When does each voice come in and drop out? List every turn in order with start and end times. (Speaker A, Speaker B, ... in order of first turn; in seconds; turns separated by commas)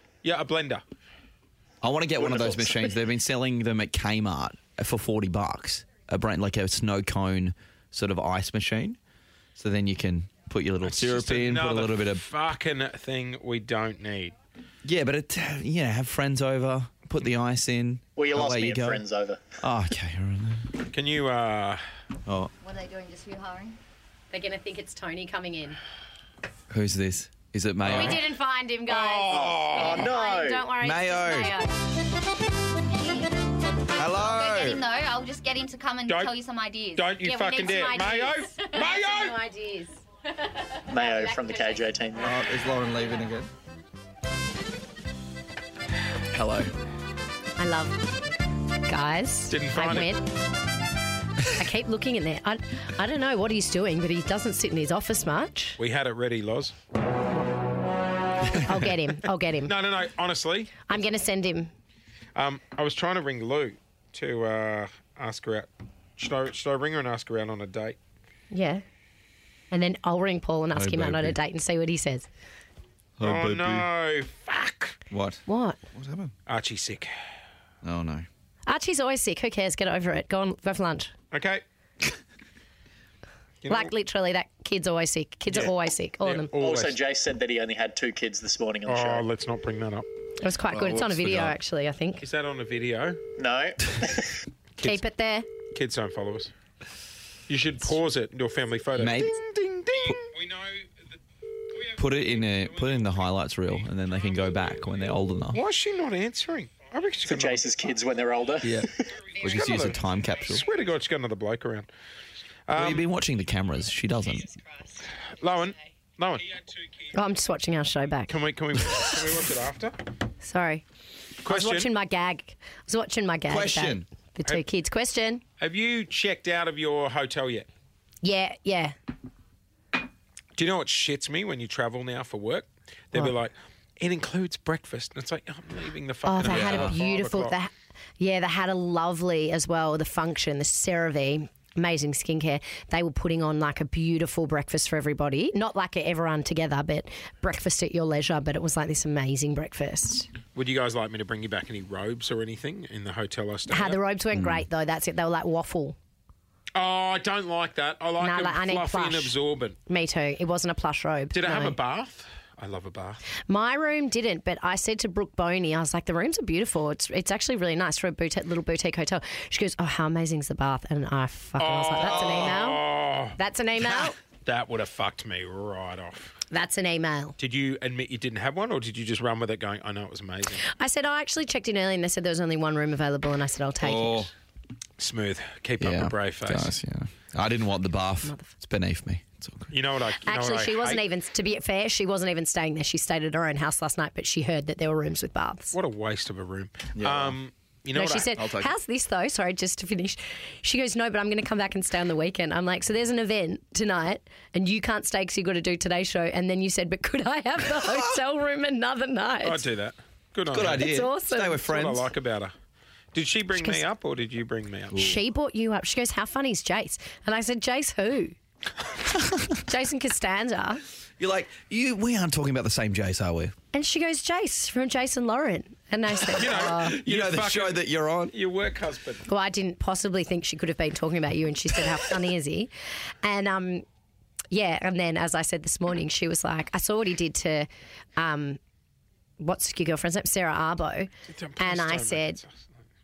Speaker A: 0.2-0.8, Speaker B: 1.8-9.0, Speaker C: 2.2-2.8, Speaker B: 9.6-12.2, Speaker A: 10.8-14.3, Speaker B: 14.8-19.0, Speaker C: 18.1-19.4, Speaker B: 19.6-20.7, Speaker A: 20.9-21.8, Speaker B: 22.2-22.5, Speaker D: 22.6-23.8, Speaker E: 24.3-25.8, Speaker B: 26.7-28.2, Speaker E: 27.8-31.7, Speaker A: 27.9-28.2, Speaker A: 28.9-30.1, Speaker C: 29.3-30.7, Speaker B: 30.8-31.6, Speaker B: 34.0-34.8, Speaker D: 34.1-37.0, Speaker A: 36.0-36.4, Speaker A: 36.9-39.4, Speaker E: 37.2-42.4, Speaker C: 40.9-42.4, Speaker B: 42.2-43.5, Speaker B: 46.3-46.7, Speaker E: 47.6-48.0, Speaker E: 48.7-50.3, Speaker A: 49.5-50.1, Speaker E: 51.5-55.8, Speaker A: 55.8-56.7, Speaker B: 58.5-58.8, Speaker E: 58.6-59.7, Speaker A: 59.6-61.0, Speaker E: 60.9-61.7, Speaker A: 62.3-68.0, Speaker E: 68.5-68.8, Speaker E: 69.7-72.2, Speaker B: 70.7-71.4, Speaker B: 73.2-73.9, Speaker A: 73.2-75.0, Speaker B: 75.1-76.3, Speaker E: 75.5-75.8, Speaker A: 76.5-77.1, Speaker B: 77.8-78.3, Speaker E: 78.7-81.1, Speaker A: 81.3-81.6, Speaker A: 83.6-83.9, Speaker E: 83.7-86.5, Speaker A: 85.5-87.0, Speaker C: 86.6-89.2, Speaker A: 88.8-90.1, Speaker E: 90.4-92.2, Speaker A: 90.7-91.5, Speaker A: 92.2-93.2, Speaker C: 93.4-94.4, Speaker E: 94.8-95.5, Speaker A: 95.7-96.5, Speaker A: 97.5-100.9, Speaker B: 99.0-99.4, Speaker B: 102.0-105.6, Speaker A: 102.3-103.2, Speaker A: 105.5-107.7, Speaker C: 107.2-109.0, Speaker B: 108.6-110.6, Speaker A: 109.3-111.9, Speaker A: 112.7-113.0, Speaker B: 112.7-114.6, Speaker A: 115.4-116.6, Speaker E: 117.1-118.3, Speaker A: 118.3-120.0, Speaker E: 120.4-120.8, Speaker A: 121.4-121.9, Speaker E: 121.5-125.4, Speaker B: 123.5-124.0, Speaker A: 125.6-127.7, Speaker E: 128.2-128.9, Speaker A: 130.6-137.6, Speaker E: 136.2-150.3, Speaker B: 136.4-136.9, Speaker A: 150.5-154.0, Speaker E: 153.7-155.9, Speaker B: 154.3-154.6, Speaker A: 156.8-159.8, Speaker E: 158.2-159.3, Speaker E: 159.9-161.8, Speaker A: 161.3-163.2, Speaker E: 163.5-174.2, Speaker A: 171.6-176.3, Speaker E: 176.5-177.4, Speaker A: 177.4-180.7, Speaker E: 180.6-184.3, Speaker B: 183.8-184.3, Speaker A: 185.0-186.8, Speaker B: 185.8-189.7, Speaker E: 188.2-188.5, Speaker A: 189.7-191.0, Speaker E: 190.2-195.8, Speaker A: 195.7-198.3, Speaker B: 196.9-197.4, Speaker E: 197.9-209.6, Speaker B: 198.3-198.7, Speaker A: 209.4-210.9, Speaker B: 210.5-212.1, Speaker E: 210.7-211.6, Speaker A: 211.6-212.5, Speaker A: 213.1-215.2, Speaker E: 213.5-213.8, Speaker E: 214.9-218.3, Speaker E: 219.5-220.8, Speaker B: 221.2-223.5, Speaker E: 223.7-227.0, Speaker A: 226.3-229.2, Speaker B: 226.5-228.3, Speaker E: 229.3-232.7, Speaker E: 233.2-233.8, Speaker E: 234.5-238.6, Speaker E: 239.4-242.4, Speaker A: 241.3-242.5